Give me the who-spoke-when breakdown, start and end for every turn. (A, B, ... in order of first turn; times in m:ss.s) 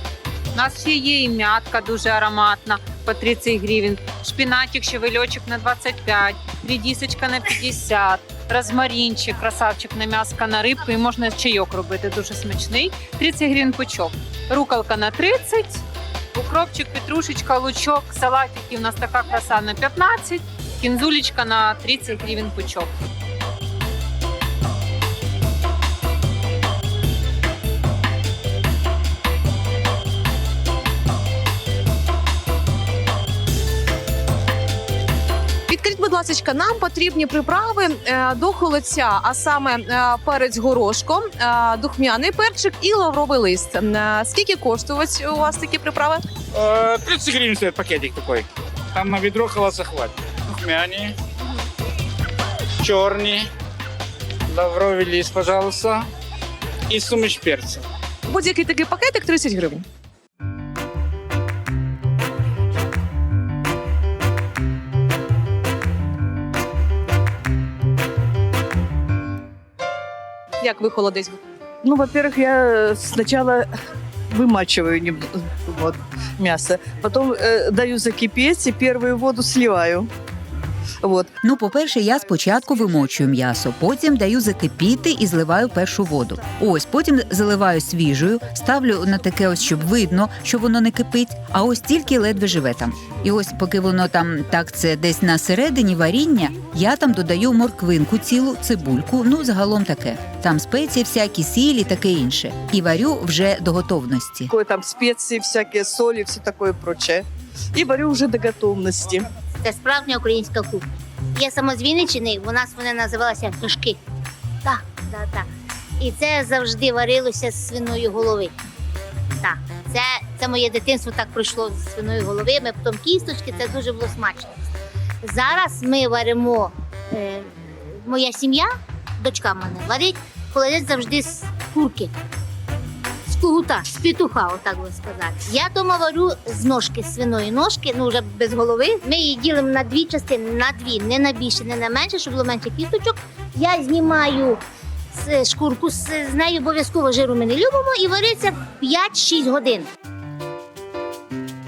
0:00.5-0:15.8 A
0:16.3-0:22.9 A
0:35.7-0:46.2 B
0:46.5-0:51.1 C
0:52.8-0:53.5 C
0:54.5-0:56.0 C
0:56.9-0:57.8 C
0:58.3-0:59.8 B
1:10.6-1:11.4 B
1:11.8-1:13.7 D
1:14.3-1:20.1 D
1:21.0-1:21.3 D
1:21.4-1:44.5 E
1:44.5-1:49.3 D
1:49.6-1:50.8 F
1:51.3-1:54.0 F
1:54.6-1:55.4 F
1:56.0-1:58.5 F
1:59.4-2:04.6 F
2:05.2-2:12.1 F
2:13.3-2:24.6 F
2:25.1-2:29.9 F